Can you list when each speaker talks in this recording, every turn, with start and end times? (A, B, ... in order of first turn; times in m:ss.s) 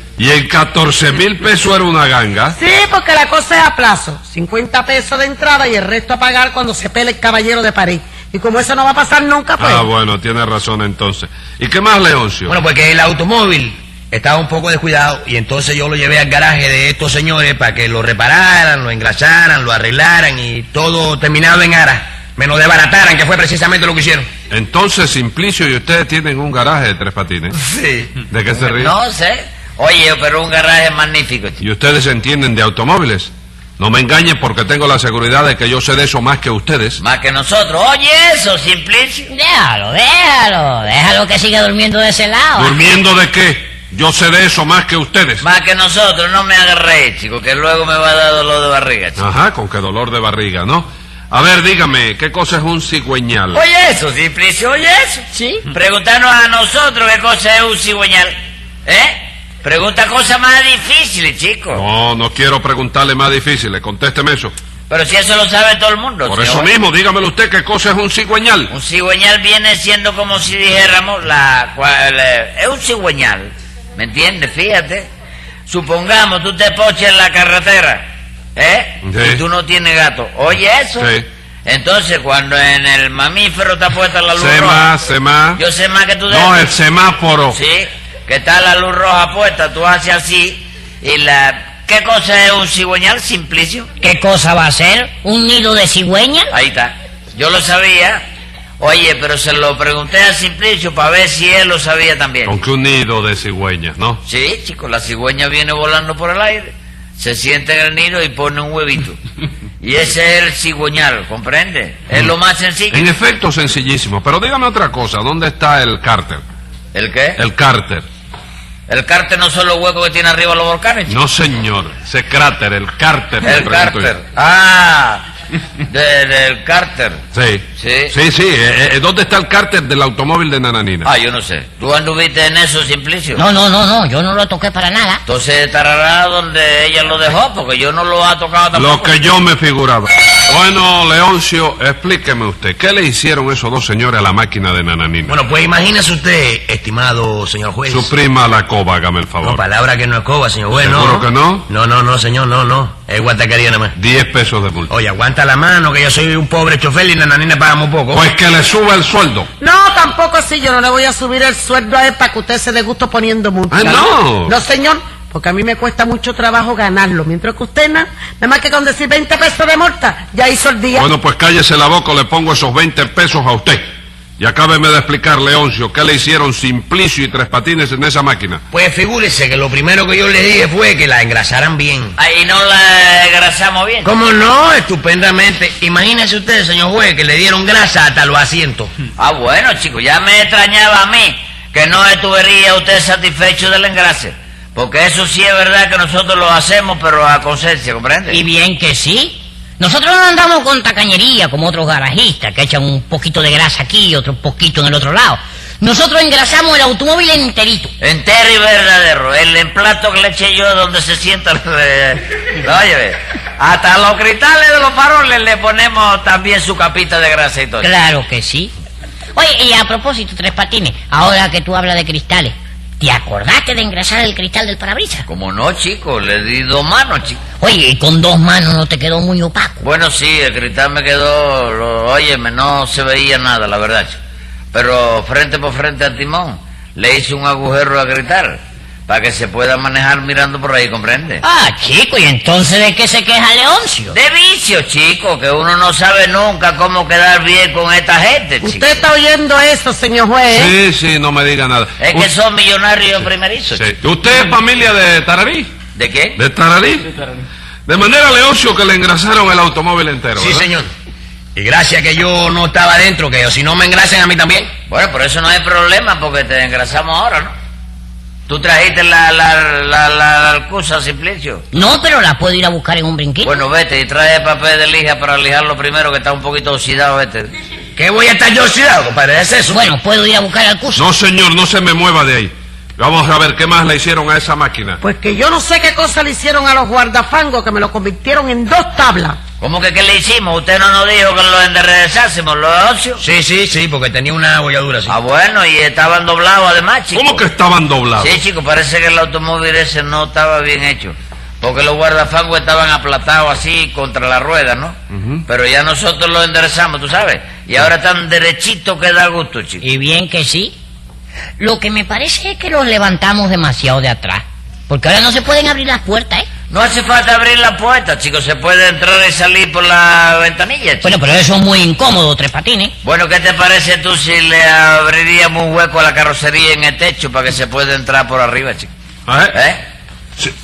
0:00.2-0:02.6 A
0:02.5-0:09.9 B
0:09.6-0:12.6 A
0:12.5-0:24.3 C
0:24.5-0:27.5 A
0:28.3-0:28.9 A
0:28.6-0:31.6 D
0:31.6-0:37.0 A
0:37.0-0:39.3 D
0:39.3-0:42.8 E
0:42.6-0:45.4 A
0:45.4-0:49.2 D
0:49.2-0:53.6 A
0:53.5-0:58.3 D
0:55.3-0:55.6 E
0:58.8-1:01.8 D
1:01.7-1:04.5 A
1:04.9-1:06.7 D
1:06.2-1:08.7 A
1:08.7-1:15.1 D
1:15.6-1:18.0 D
1:18.6-1:21.1 D
1:19.0-1:19.4 A
1:21.0-1:21.2 A
1:21.6-1:24.9 D
1:24.3-1:25.6 A
1:25.6-1:26.7 D
1:26.3-1:27.6 A
1:27.5-1:33.9 D
1:34.0-1:36.5 E
1:36.5-1:38.2 D
1:38.8-1:42.6 D
1:42.4-1:44.2 A
1:44.2-1:49.2 D
1:49.8-1:53.1 D
1:52.9-1:56.4 A
1:56.9-1:57.4 D
1:57.4-1:58.0 A
1:58.9-2:01.2 D
2:01.1-2:04.1 A
2:03.4-2:05.2 D
2:05.9-2:07.2 D
2:07.3-2:11.1 A
2:07.8-2:08.1 D
2:11.0-2:13.4 D
2:13.4-2:15.2 E
2:15.2-2:19.1 D
2:18.7-2:25.4 A
2:25.3-2:28.1 C
2:27.9-2:29.6 A
2:29.4-2:33.9 C
2:30.7-2:31.7 A
2:34.0-2:34.9 A
2:34.9-2:38.2 C
2:38.1-2:39.5 A
2:39.6-2:51.1 B
2:43.7-2:44.6 A
2:50.9-2:53.8 A
2:54.4-2:58.6 A
2:58.7-3:02.2 C
3:02.2-3:04.1 D
3:04.0-3:08.9 C
3:09.2-3:18.4 D
3:18.3-3:27.9 E
3:28.0-3:37.9 D
3:37.8-3:38.7 E
3:39.3-3:45.2 E
3:45.3-3:47.4 D
3:47.6-3:49.8 E
3:49.8-3:54.2 D
3:54.7-4:01.4 D
4:01.4-4:04.1 E
4:04.1-4:09.0 D
4:08.6-4:10.7 B
4:10.5-4:12.3 A
4:12.0-4:13.8 D
4:13.7-4:15.7 A
4:15.9-4:16.4 D
4:16.4-4:17.2 A
4:17.9-4:20.6 A
4:20.4-4:20.9 C
4:21.6-4:24.7 C
4:24.9-4:27.5 D
4:28.5-4:31.6 D
4:31.7-4:33.6 E
4:33.4-4:37.5 D
4:38.0-4:39.9 C
4:39.7-4:41.0 E
4:40.9-4:45.0 A
4:45.0-4:49.4 B
4:49.6-4:53.2 D
4:53.2-4:55.2 C
4:55.1-4:57.4 D
4:57.1-4:58.4 A
4:58.2-5:05.0 D
5:05.1-5:05.4 A
5:05.5-5:09.8 D
5:09.8-5:10.7 E
5:11.6-5:16.5 E
5:16.7-5:21.1 D
5:21.0-5:22.9 E
5:23.0-5:28.9 D
5:29.3-5:29.5 A
5:29.5-5:29.8 D